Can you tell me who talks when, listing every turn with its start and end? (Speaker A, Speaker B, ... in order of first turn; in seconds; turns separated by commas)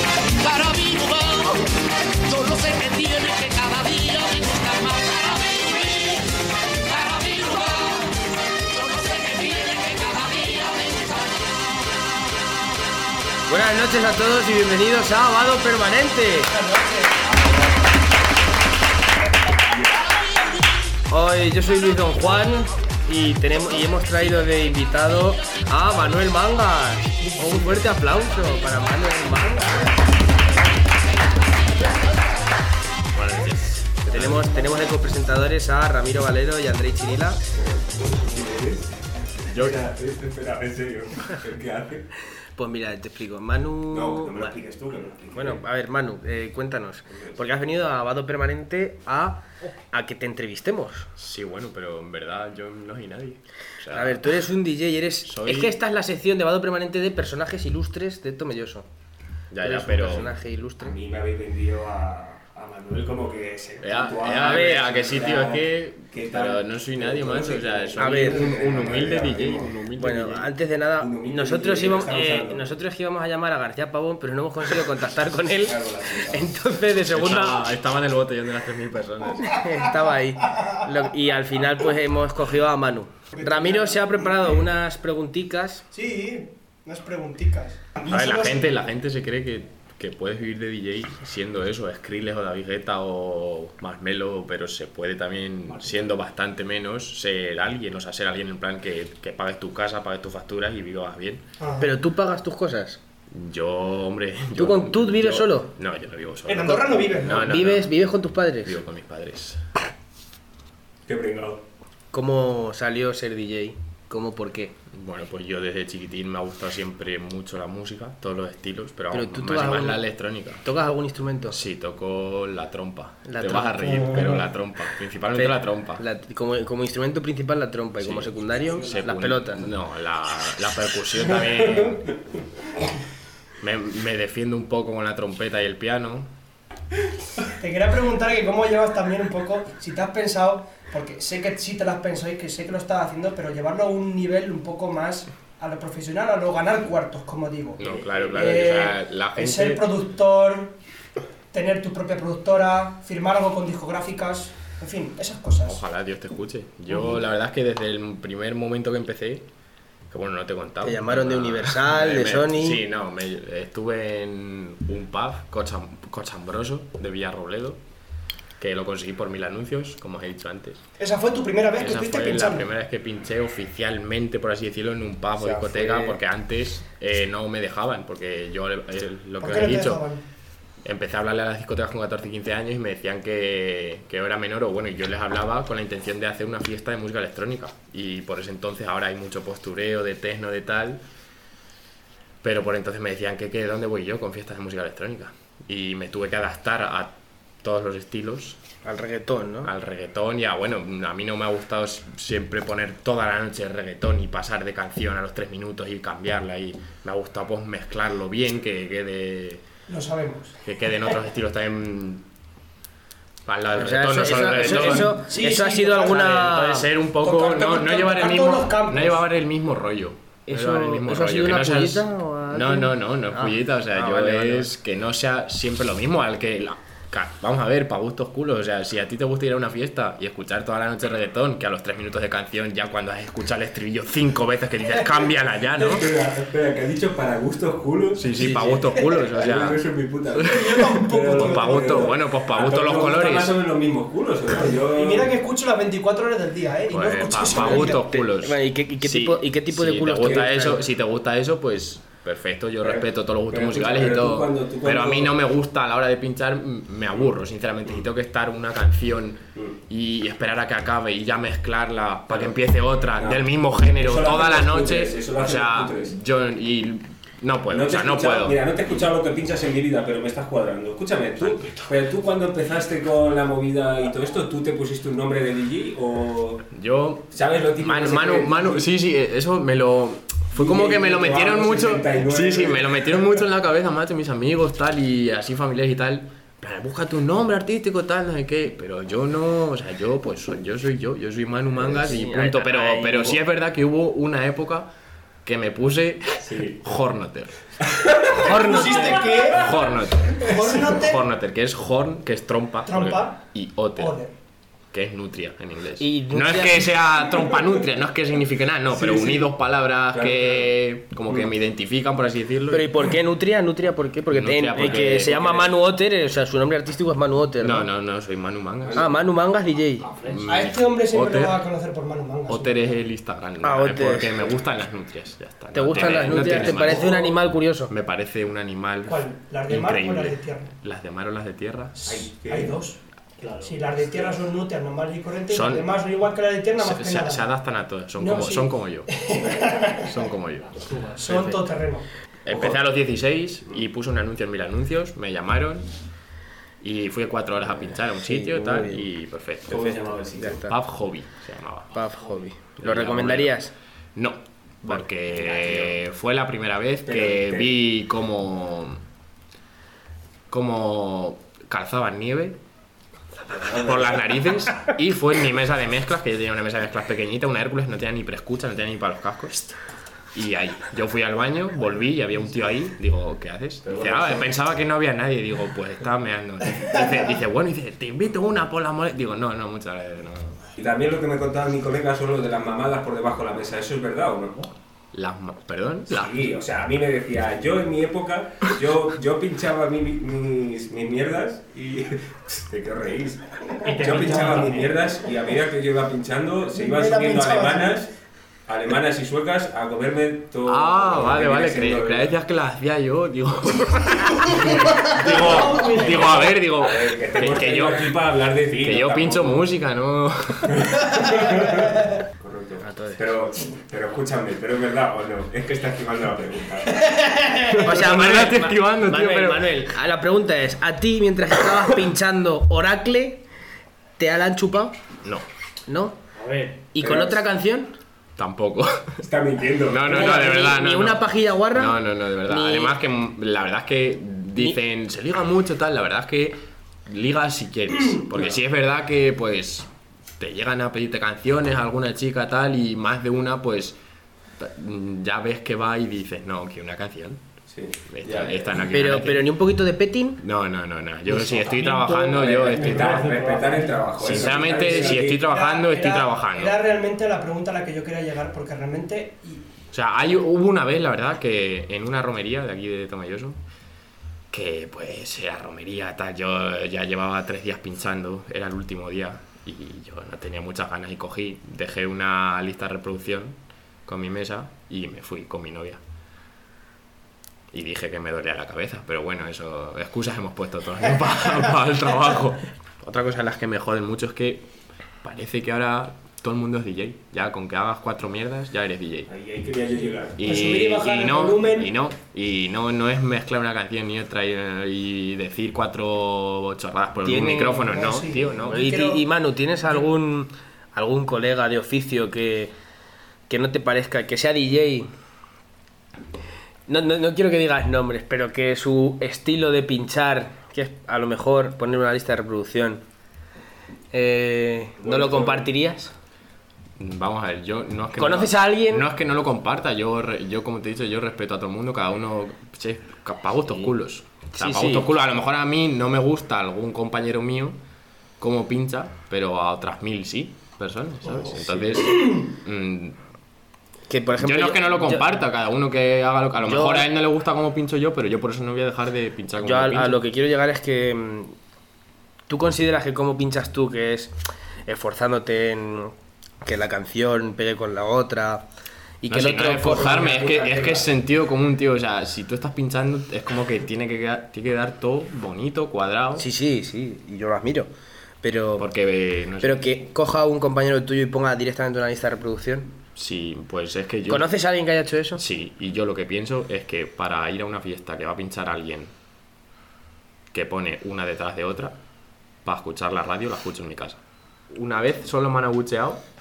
Speaker A: 0.6-1.4, Speaker A: 2.3-3.8, Speaker B: 13.5-16.5, Speaker C: 16.5-17.3, Speaker B: 21.1-30.0, Speaker D: 33.1-34.5, Speaker B: 34.0-37.4, Speaker E: 37.5-42.0, Speaker D: 39.5-39.8, Speaker B: 42.5-44.5, Speaker E: 43.9-45.6, Speaker B: 45.3-51.1, Speaker E: 47.1-47.4, Speaker D: 51.2-54.4, Speaker B: 53.9-58.9, Speaker D: 55.2-55.8, Speaker D: 59.5-60.4, Speaker B: 59.6-61.0, Speaker E: 60.8-69.7, Speaker D: 63.8-70.5, Speaker B: 64.3-65.0, Speaker B: 68.0-68.7, Speaker B: 70.0-77.6, Speaker E: 71.0-72.7, Speaker E: 75.4-76.5, Speaker D: 77.0-79.6, Speaker B: 79.5-85.8, Speaker C: 83.3-84.2, Speaker C: 85.9-88.6, Speaker D: 88.1-101.4, Speaker C: 101.6-102.0, Speaker B: 101.8-103.0, Speaker D: 103.3-109.6, Speaker B: 104.5-105.7, Speaker C: 106.4-107.5, Speaker B: 107.1-108.8, Speaker E: 111.1-111.6, Speaker B: 112.1-114.7, Speaker D: 114.9-120.7, Speaker B: 119.1-120.0, Speaker B: 120.6-121.6, Speaker D: 121.5-126.0, Speaker B: 123.3-124.4, Speaker B: 125.3-129.7, Speaker D: 128.0-132.1, Speaker D: 133.6-136.3, Speaker C: 137.6-150.7, Speaker D: 147.8-149.9, Speaker C: 151.5-155.8, Speaker D: 155.6-159.5, Speaker D: 160.1-167.8, Speaker B: 160.8-162.8, Speaker D: 168.6-170.8, Speaker C: 171.0-172.7, Speaker D: 171.8-180.0, Speaker B: 175.4-176.2, Speaker C: 179.4-180.2, Speaker D: 180.8-191.0, Speaker D: 192.4-197.1, Speaker D: 197.6-198.6, Speaker B: 198.8-199.7, Speaker D: 199.6-209.6, Speaker C: 209.9-210.6, Speaker D: 210.6-212.2, Speaker D: 213.4-215.2, Speaker B: 213.7-216.9, Speaker C: 214.6-216.3, Speaker D: 216.1-236.1, Speaker C: 217.2-219.2, Speaker B: 220.5-224.7, Speaker E: 235.7-245.3, Speaker D: 238.1-243.6, Speaker C: 240.5-242.2, Speaker C: 244.5-248.1, Speaker D: 246.9-268.6, Speaker B: 247.6-250.8, Speaker E: 250.2-250.6, Speaker E: 252.8-255.4, Speaker E: 262.3-262.5, Speaker E: 263.2-266.2, Speaker E: 267.7-276.6, Speaker D: 271.4-271.8, Speaker D: 276.7-294.9, Speaker E: 277.3-278.9, Speaker E: 280.5-283.3, Speaker B: 292.0-293.4, Speaker D: 295.4-297.5, Speaker E: 296.4-296.8, Speaker E: 297.9-298.4, Speaker C: 298.4-299.6, Speaker B: 298.4-299.4, Speaker E: 299.2-299.8, Speaker D: 299.5-304.2, Speaker C: 300.4-301.2, Speaker C: 302.8-303.4, Speaker C: 304.0-304.3, Speaker D: 304.9-312.9, Speaker B: 306.0-307.0, Speaker E: 308.9-309.5, Speaker E: 310.1-310.7, Speaker B: 312.7-317.9, Speaker D: 314.3-315.7, Speaker D: 317.6-319.1, Speaker E: 318.8-319.3, Speaker B: 318.9-320.1, Speaker F: 320.0-320.4, Speaker D: 320.2-321.6, Speaker C: 320.4-322.9, Speaker D: 322.5-327.3, Speaker B: 323.6-324.4, Speaker B: 325.7-327.9, Speaker E: 326.1-327.3, Speaker D: 327.9-332.0, Speaker C: 329.1-330.7, Speaker C: 331.9-333.0, Speaker E: 332.1-332.8, Speaker F: 333.4-333.9, Speaker C: 333.6-337.6, Speaker D: 335.5-336.0, Speaker D: 336.8-339.1, Speaker C: 338.1-340.1, Speaker D: 340.0-340.7, Speaker F: 340.6-341.3, Speaker C: 341.2-342.1, Speaker D: 342.4-345.9, Speaker E: 342.5-342.8, Speaker D: 346.8-352.0, Speaker B: 348.2-349.1, Speaker E: 349.6-350.6, Speaker B: 350.3-350.8, Speaker B: 351.9-353.7, Speaker D: 352.8-353.6, Speaker D: 354.1-359.0, Speaker E: 354.9-356.0, Speaker E: 357.0-357.7, Speaker D: 360.5-362.6, Speaker E: 363.5-364.1, Speaker D: 363.7-369.7, Speaker D: 370.3-380.6, Speaker E: 373.8-374.5, Speaker E: 380.8-384.7, Speaker D: 385.1-386.4, Speaker E: 386.1-398.1, Speaker F: 393.8-394.9, Speaker C: 393.9-395.0, Speaker C: 396.7-398.0, Speaker E: 398.7-402.3, Speaker D: 400.6-408.1, Speaker C: 404.5-406.6, Speaker E: 404.8-409.7, Speaker F: 405.7-406.2, Speaker D: 408.7-410.9, Speaker E: 410.7-417.1, Speaker B: 412.8-413.2, Speaker C: 417.1-417.7, Speaker D: 417.6-419.8, Speaker B: 417.8-423.4, Speaker B: 424.2-424.9, Speaker B: 425.9-426.2, Speaker F: 426.3-426.9, Speaker B: 426.9-427.9, Speaker E: 427.0-427.4, Speaker D: 428.4-429.2, Speaker E: 429.2-430.6, Speaker D: 429.9-439.9, Speaker B: 430.1-432.9, Speaker D: 440.4-443.9, Speaker D: 444.6-447.4, Speaker E: 447.7-448.7, Speaker D: 448.1-449.5, Speaker B: 448.9-450.4, Speaker D: 450.4-453.2, Speaker F: 451.3-454.9, Speaker E: 452.3-455.4, Speaker D: 454.2-456.8, Speaker C: 454.8-459.6, Speaker D: 459.9-463.6, Speaker D: 464.5-476.0, Speaker D: 477.7-484.6, Speaker D: 485.2-489.3, Speaker E: 489.3-490.5, Speaker C: 490.1-491.9, Speaker D: 490.4-498.9, Speaker B: 497.2-497.9, Speaker C: 497.8-499.2, Speaker B: 498.7-502.7, Speaker B: 503.5-505.1, Speaker B: 506.9-513.0, Speaker B: 514.1-516.1, Speaker E: 515.0-515.7, Speaker D: 517.0-527.8, Speaker B: 518.1-519.1, Speaker B: 524.5-525.1, Speaker D: 528.4-533.2, Speaker E: 531.3-532.0, Speaker B: 534.1-535.3, Speaker D: 534.4-540.2, Speaker B: 536.6-537.1, Speaker B: 539.6-541.5, Speaker B: 542.5-548.6, Speaker B: 549.2-550.3, Speaker D: 549.3-556.5, Speaker E: 549.8-551.1, Speaker B: 556.4-557.9, Speaker B: 558.4-558.9, Speaker D: 558.8-560.0, Speaker B: 559.6-562.9, Speaker D: 563.1-564.5, Speaker B: 564.2-565.4, Speaker D: 565.3-569.1, Speaker D: 570.5-572.0, Speaker D: 572.6-574.2, Speaker D: 574.7-576.2